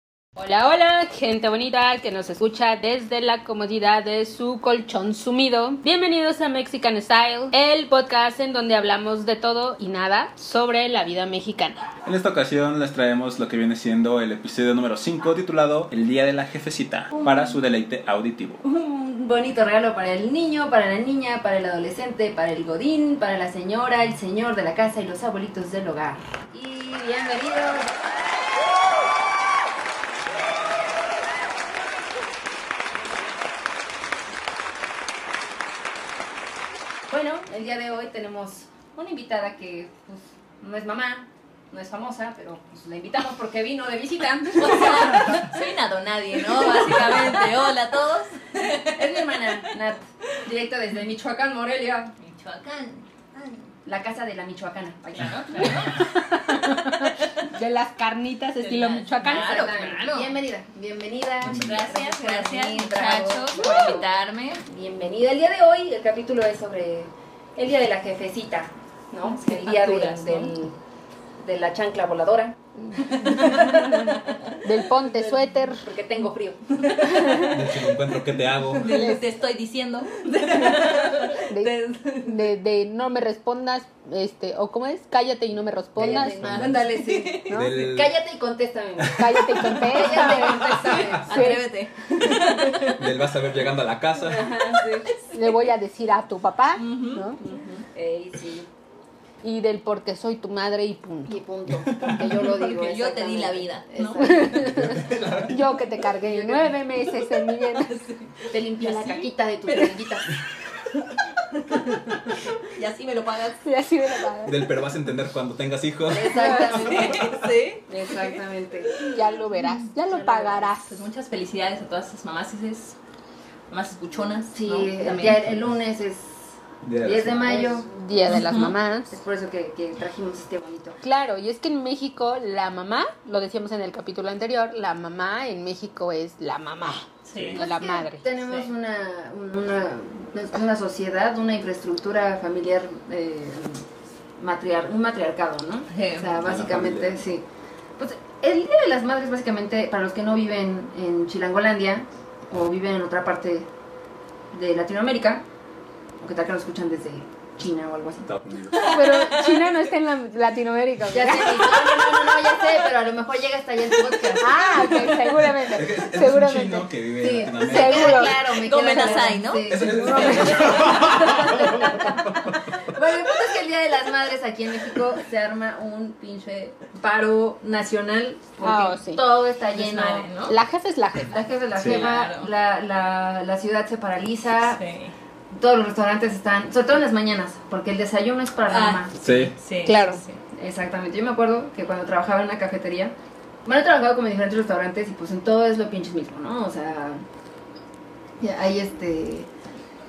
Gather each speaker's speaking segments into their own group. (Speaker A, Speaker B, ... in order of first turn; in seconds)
Speaker A: 0.4-11.8, 55.6-59.9, 73.0-75.8, 77.0-77.6, 78.8-79.2, 80.4-86.6, 87.5-87.7, 89.1-91.7, 95.3-97.4, 99.4-101.4, 104.2-108.0, 113.6-114.8, 119.1-121.0, 127.6-129.2, 131.0-138.2, 158.8-161.8, 164.4-171.8, 178.6-179.2, 180.5-181.4, 189.8-190.2
Speaker B: 12.0-18.6, 61.4-61.7, 77.3-78.9, 86.4-86.8, 87.5-88.1, 89.3-89.8, 93.0-94.5, 101.8-102.3, 104.5-105.7, 114.4-117.3, 126.8-127.7, 146.4-147.2, 158.3-158.9, 165.6-168.2, 169.6-172.9, 181.8-182.0, 189.2-189.5
Speaker C: 17.1-17.6, 18.6-28.0, 37.1-45.5, 46.6-47.4, 48.8-52.1, 53.9-56.0, 59.2-64.1, 64.6-70.8, 71.4-73.9, 75.0-77.3, 86.0-91.5, 94.3-95.1, 97.4-98.7, 101.2-104.6, 108.5-110.3, 116.1-117.3, 117.9-119.0, 124.5-127.9, 129.1-131.0, 137.6-143.9, 144.4-147.4, 148.0-153.7, 154.5-155.4, 156.2-158.3, 161.1-165.1, 167.2-180.3, 181.3-184.8, 185.5-189.5, 190.5-193.1, 193.6-197.2, 198.4-199.5
Speaker D: 44.6-49.6, 52.2-53.7, 55.1-57.4, 58.6-60.4, 61.4-64.6, 69.3-70.5, 73.2-74.4, 76.8-77.6, 78.8-82.5, 86.2-87.6, 89.8-93.2, 94.4-95.2, 96.8-97.8, 102.4-104.6, 106.3-109.9, 111.5-113.6, 116.3-118.4, 118.9-123.0, 123.7-125.4, 128.3-128.8, 137.2-137.6, 145.9-146.3, 158.7-159.7, 161.6-162.8, 168.4-171.7, 179.7-180.6, 181.7-182.5, 184.6-185.1, 188.7-190.4